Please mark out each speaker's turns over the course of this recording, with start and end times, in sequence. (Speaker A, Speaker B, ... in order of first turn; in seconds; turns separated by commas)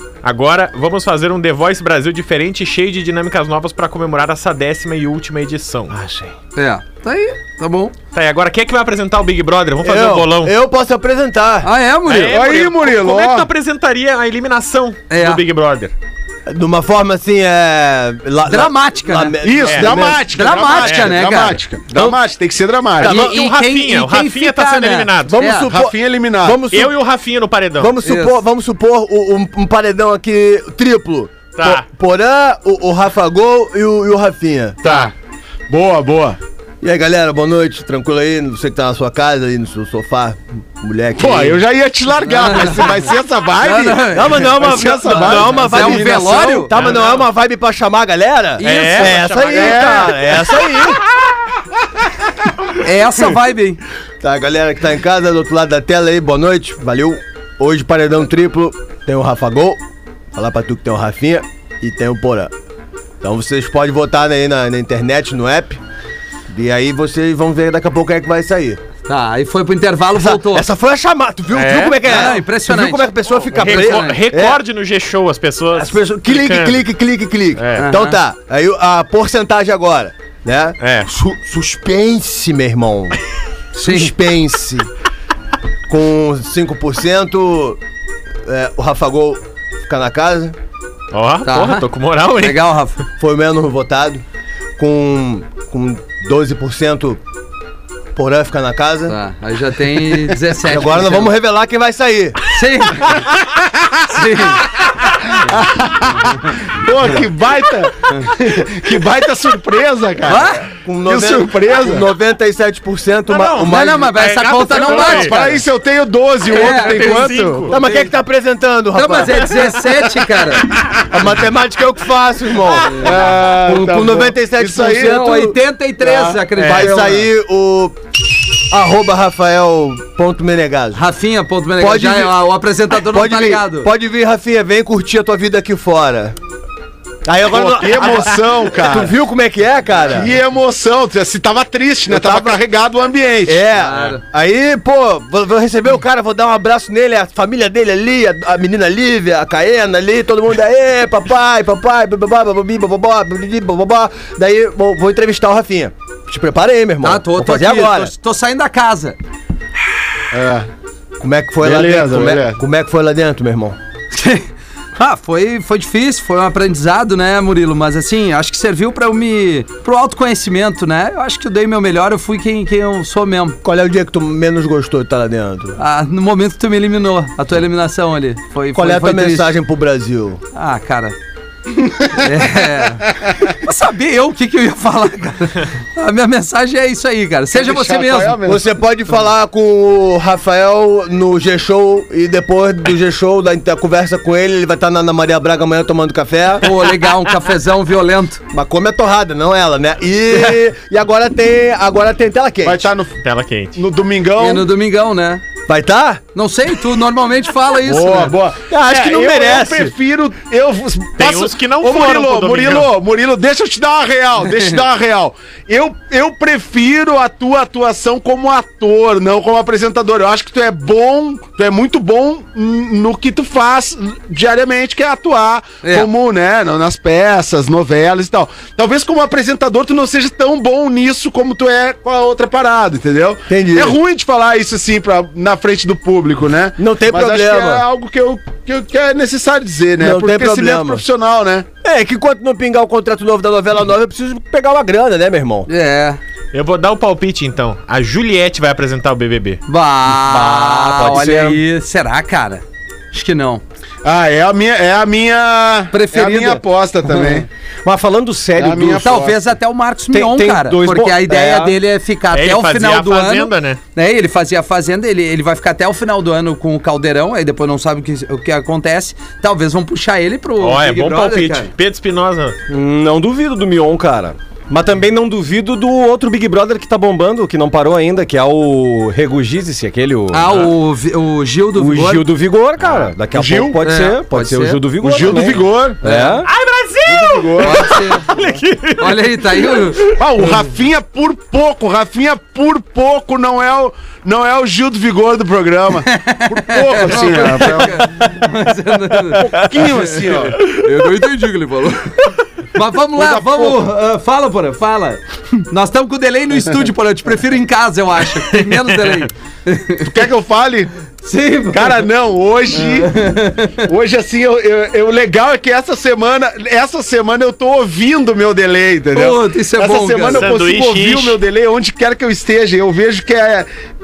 Speaker A: 0.2-6.0, Speaker B: 5.9-6.3, Speaker C: 6.6-7.9, Speaker A: 8.1-10.5, Speaker D: 9.8-11.7, Speaker C: 11.6-12.4, Speaker A: 12.1-15.9, Speaker E: 12.3-13.5, Speaker C: 15.1-15.4, Speaker D: 16.5-20.1, Speaker C: 18.5-21.6, Speaker E: 19.4-23.3, Speaker A: 19.6-20.0, Speaker A: 20.8-21.1, Speaker A: 23.0-25.5, Speaker C: 23.0-25.7, Speaker D: 25.4-26.9, Speaker E: 25.7-26.7, Speaker A: 26.7-27.9, Speaker D: 27.8-34.8, Speaker C: 28.0-28.4, Speaker A: 31.6-31.9, Speaker A: 34.8-35.1, Speaker E: 35.7-36.4, Speaker D: 36.8-41.6, Speaker E: 41.2-46.4, Speaker C: 42.3-42.9, Speaker C: 43.6-44.5, Speaker D: 44.2-51.0, Speaker B: 44.6-45.7, Speaker C: 45.5-46.7, Speaker A: 46.7-47.3, Speaker C: 48.6-49.4, Speaker A: 48.6-50.1, Speaker E: 49.5-50.3, Speaker C: 52.8-53.8, Speaker D: 54.2-59.8, Speaker D: 60.3-62.5, Speaker D: 63.2-65.8, Speaker D: 66.5-68.8, Speaker C: 69.1-70.7, Speaker D: 70.2-74.6, Speaker A: 71.5-72.3, Speaker C: 72.0-74.2, Speaker A: 73.5-76.9, Speaker D: 75.8-83.2, Speaker A: 77.5-77.9, Speaker C: 77.8-78.2, Speaker A: 80.8-81.1, Speaker C: 83.8-84.1, Speaker D: 83.8-84.9, Speaker D: 85.9-87.8, Speaker D: 88.5-90.6, Speaker A: 91.1-92.6, Speaker C: 91.5-91.8, Speaker C: 92.4-93.0, Speaker D: 93.2-94.2, Speaker D: 94.8-97.2, Speaker D: 98.1-99.2, Speaker C: 99.1-101.3, Speaker D: 100.6-102.4, Speaker C: 102.5-103.1, Speaker C: 104.1-104.7, Speaker E: 105.3-112.1, Speaker C: 110.2-110.7, Speaker D: 110.8-114.1, Speaker A: 113.3-115.3, Speaker C: 113.7-115.6, Speaker E: 114.9-117.8, Speaker C: 116.5-118.1, Speaker A: 116.5-117.8, Speaker D: 117.7-119.6, Speaker C: 118.9-120.7, Speaker D: 121.1-123.0, Speaker E: 122.9-125.3, Speaker D: 123.6-128.0, Speaker C: 125.0-127.3, Speaker A: 126.6-127.0, Speaker D: 128.7-131.0, Speaker C: 130.9-133.9, Speaker D: 131.8-132.3, Speaker D: 133.0-136.4, Speaker D: 137.3-140.3, Speaker E: 137.5-139.2, Speaker A: 138.0-138.3, Speaker E: 140.1-143.7, Speaker D: 142.1-142.6, Speaker D: 143.5-158.1, Speaker C: 143.8-144.2, Speaker C: 157.0-159.2, Speaker E: 160.3-160.7, Speaker D: 161.2-163.8, Speaker E: 161.6-162.6, Speaker C: 164.1-173.6, Speaker D: 173.6-175.8, Speaker C: 175.8-179.5, Speaker D: 178.7-180.4, Speaker C: 180.5-181.2, Speaker C: 182.0-188.4, Speaker E: 187.5-188.7, Speaker D: 188.5-196.8, Speaker C: 196.6-198.4, Speaker D: 198.5-202.8, Speaker E: 202.6-203.2, Speaker A: 203.2-203.8, Speaker E: 203.8-204.7, Speaker C: 204.4-205.4, Speaker D: 205.7-206.2, Speaker C: 206.3-208.3, Speaker E: 207.8-241.7, Speaker D: 208.7-209.9, Speaker A: 211.2-212.9, Speaker C: 225.8-226.1, Speaker D: 233.5-234.0, Speaker D: 236.8-237.8, Speaker D: 240.0-241.0, Speaker D: 241.8-245.7, Speaker C: 245.7-246.2, Speaker A: 246.5-249.6, Speaker C: 249.7-253.6, Speaker B: 250.1-251.6, Speaker E: 254.0-257.5, Speaker C: 255.9-257.4, Speaker B: 257.8-259.2, Speaker E: 258.5-259.4, Speaker C: 259.0-271.7, Speaker B: 260.1-261.8, Speaker A: 262.3-263.8, Speaker A: 270.6-272.6, Speaker B: 272.7-280.5, Speaker C: 280.3-282.3, Speaker B: 281.8-286.5, Speaker E: 283.3-283.8, Speaker C: 283.8-286.4, Speaker E: 285.0-286.0, Speaker A: 286.5-289.9, Speaker E: 287.1-288.1, Speaker C: 287.6-288.3, Speaker C: 289.0-290.1, Speaker E: 290.2-298.3, Speaker C: 296.1-310.1, Speaker E: 299.4-300.7, Speaker E: 303.2-303.9, Speaker E: 310.1-310.9, Speaker C: 311.2-312.1, Speaker E: 311.7-323.7, Speaker C: 312.7-313.9, Speaker C: 319.1-320.5, Speaker A: 320.3-321.4